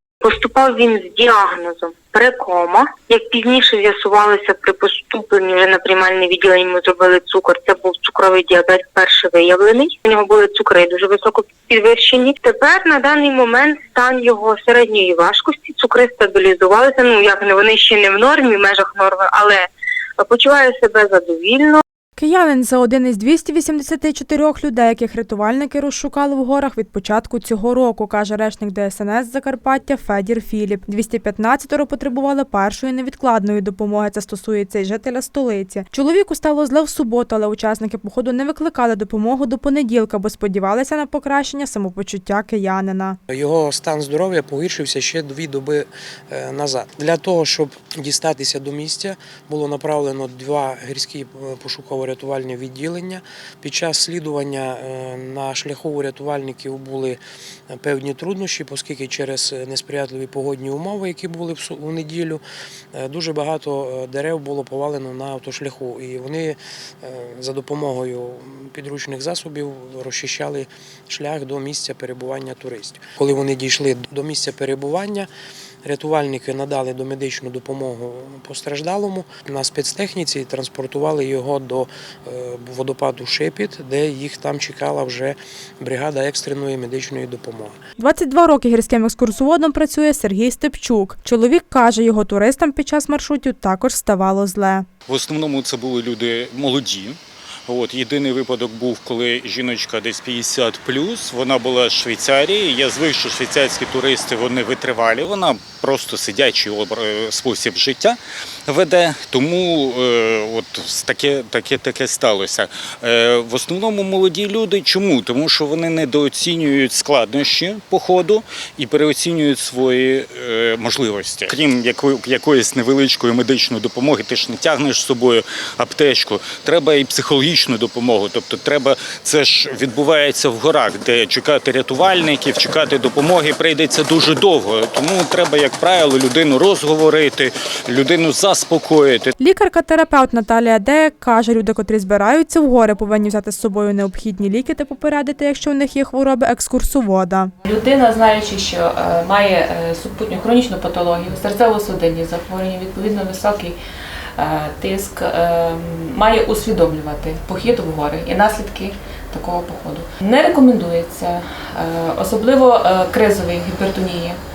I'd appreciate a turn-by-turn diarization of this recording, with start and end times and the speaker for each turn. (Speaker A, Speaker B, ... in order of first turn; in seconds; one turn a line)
Speaker A: 0.2-19.6
Speaker A: 20.2-21.8
Speaker B: 22.2-43.2
Speaker C: 43.3-62.4
Speaker C: 62.9-75.3
Speaker C: 75.8-87.8
Speaker B: 88.0-94.8
Speaker D: 95.1-139.3
Speaker B: 139.4-147.5
Speaker E: 147.6-153.8
Speaker E: 154.4-164.4